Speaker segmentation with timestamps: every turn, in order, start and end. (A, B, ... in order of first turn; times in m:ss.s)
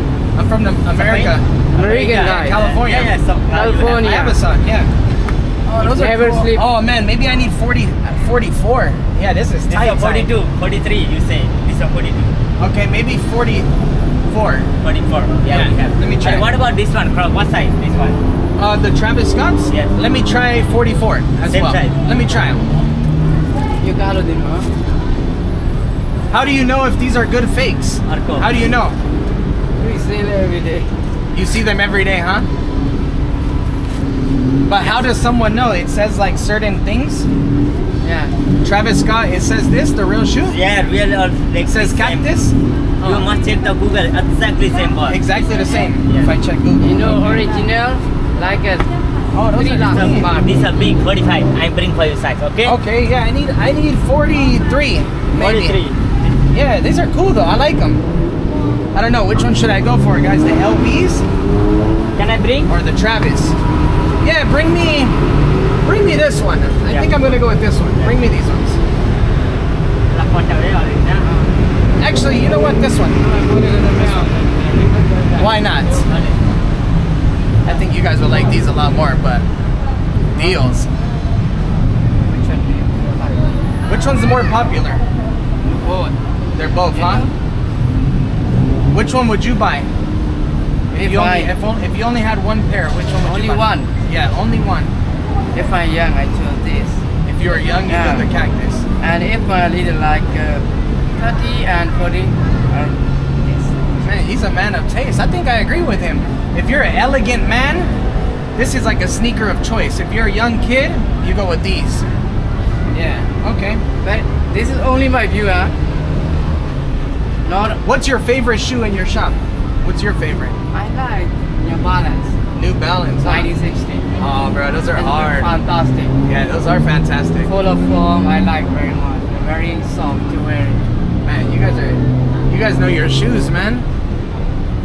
0:00.4-0:04.9 A
0:00.9-0:04.2 B
0:01.7-0:02.6 C
0:03.5-0:04.4 C
0:05.7-0:10.3 A
0:05.8-0:06.6 C
0:09.7-0:12.3 B
0:12.6-0:13.7 A
0:14.3-0:14.7 A
0:14.8-0:18.2 B
0:15.5-0:16.5 A
0:18.6-0:22.6 A
0:21.5-0:22.0 B
0:23.8-0:24.7 C
0:26.3-0:29.0 A
0:28.1-0:28.5 B
0:29.8-0:30.9 C
0:31.3-0:32.4 A
0:34.6-0:37.3 A
0:38.0-0:38.3 C
0:38.6-0:40.6 A
0:40.5-0:42.3 B
0:41.6-0:43.3 A
0:43.0-0:45.2 B
0:45.1-0:47.3 A
0:46.8-0:48.9 C
0:49.3-0:50.3 A
0:49.5-0:50.5 C
0:49.9-0:52.8 B
0:52.6-0:55.8 A
0:55.3-0:56.0 B
0:56.5-0:58.0 A
0:58.9-1:01.2 A
1:02.2-1:02.7 B
1:02.7-1:03.6 A
1:04.2-1:05.2 A
1:05.8-1:08.8 A
1:06.9-1:07.2 B
1:10.1-1:11.3 B
1:11.2-1:11.5 C
1:12.0-1:13.3 A
1:13.3-1:14.8 C
1:15.4-1:16.0 A
1:16.0-1:16.3 B
1:17.6-1:19.4 A
1:20.3-1:20.9 A
1:22.2-1:23.4 C
1:23.9-1:25.0 A
1:25.8-1:26.1 C
1:26.5-1:27.3 A
1:26.9-1:27.3 C
1:28.9-1:29.9 A
1:30.9-1:31.5 C
1:31.0-1:34.9 A
1:33.2-1:33.9 C
1:35.5-1:37.0 C
1:37.2-1:38.8 A
1:37.9-1:38.3 C
1:39.0-1:40.6 C
1:41.2-1:43.7 C
1:44.0-1:47.9 A
1:48.5-1:52.0 A
1:52.9-1:53.8 A
1:54.0-1:55.7 C
1:57.4-1:57.8 C
1:57.8-2:00.5 A
2:00.7-2:02.3 C
2:02.5-2:03.5 A
2:03.2-2:04.1 C
2:04.2-2:05.5 A
2:04.9-2:06.1 C
2:06.2-2:07.5 A
2:07.4-2:10.8 C
2:11.2-2:13.8 A